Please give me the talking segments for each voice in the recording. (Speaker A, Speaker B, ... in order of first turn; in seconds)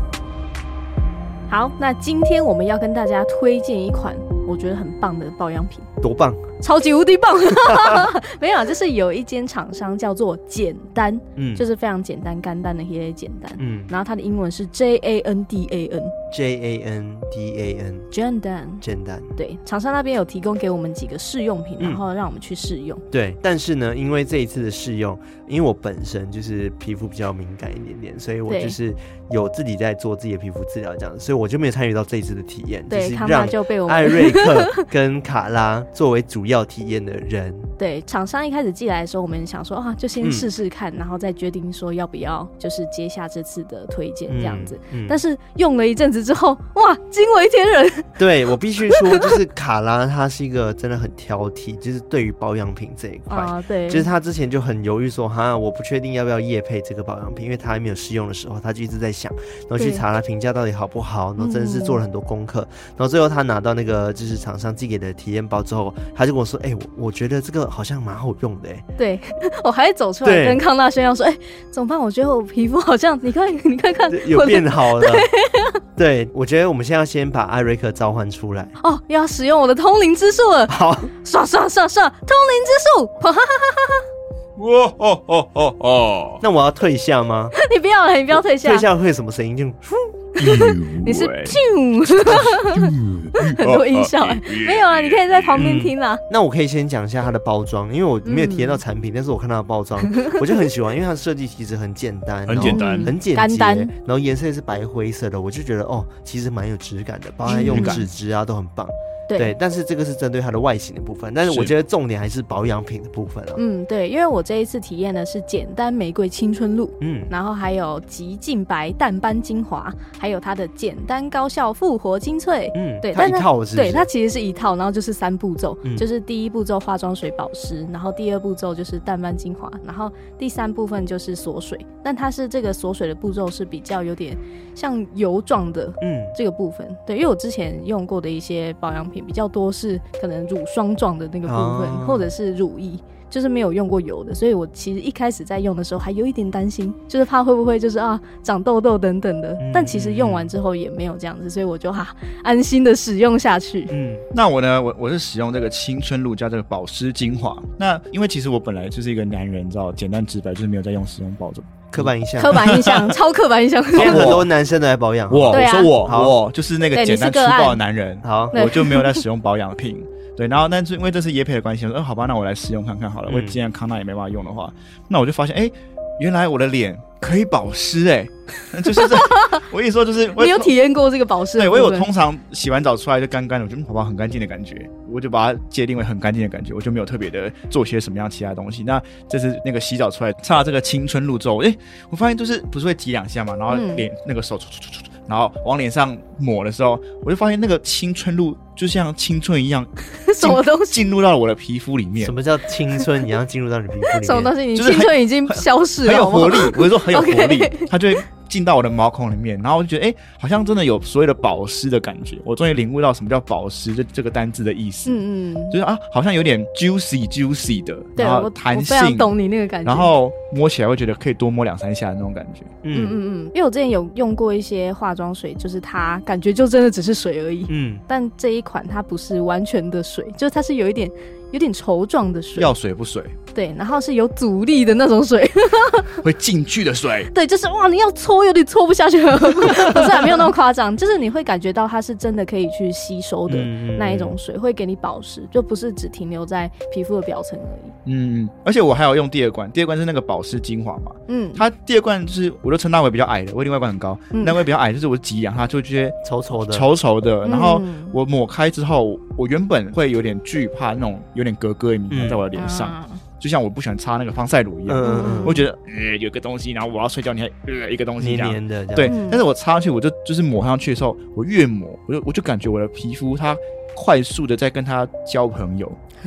Speaker A: 1.5-5.9, 6.6-16.1, 18.1-18.8, 19.4-23.0, 28.5-28.8, 32.9-34.8, 37.8-48.2, 48.9-49.4, 53.3-54.1, 59.8-60.0, 61.4-62.0, 69.0-75.8, 78.8-84.1, 87.5-88.9, 90.3-96.2, 98.2-98.8, 100.1-100.4, 102.6-103.9, 107.5-108.1, 109.3-109.5, 113.6-153.9, 162.4-164.4, 165.5-166.0, 166.9-167.8, 168.5-169.2, 179.0-179.6, 180.4-182.1, 193.7-194.1, 200.2-201.0, 204.1-208.0, 215.1-215.8, 218.2-220.1, 222.9-232.7, 233.5-236.2, 237.3-247.9, 251.3-251.6, 254.3-254.6, 257.4-258.2, 262.6-263.2, 265.0-265.7, 269.1-269.4
Speaker B: 6.0-6.5, 7.6-8.1, 11.4-11.6, 13.6-13.9, 16.3-18.1, 18.8-19.4, 23.1-37.7, 40.2-40.5, 44.3-45.2, 48.2-68.8, 70.2-70.6, 74.1-75.3, 76.0-78.8, 80.7-81.1, 86.4-87.5, 88.3-90.1, 95.6-113.6, 117.0-117.3, 122.8-124.1, 136.0-136.4, 141.5-142.3, 149.6-150.5, 153.9-154.2, 161.9-162.7, 164.0-166.3, 168.2-168.6, 173.3-173.6, 202.2-204.6, 222.8-223.2, 227.7-228.0, 243.5-244.4, 256.2-256.9, 262.1-262.4, 264.9-265.6, 268.2-269.2
Speaker C: 84.6-86.4, 90.4-91.6, 92.1-95.8, 102.5-103.1, 107.5-108.1, 111.5-111.7, 154.3-163.2, 164.0-164.5, 165.3-180.7, 181.6-202.3, 204.8-219.3, 219.8-222.7, 232.6-233.4, 236.2-237.3, 248.1-256.2, 256.7-276.0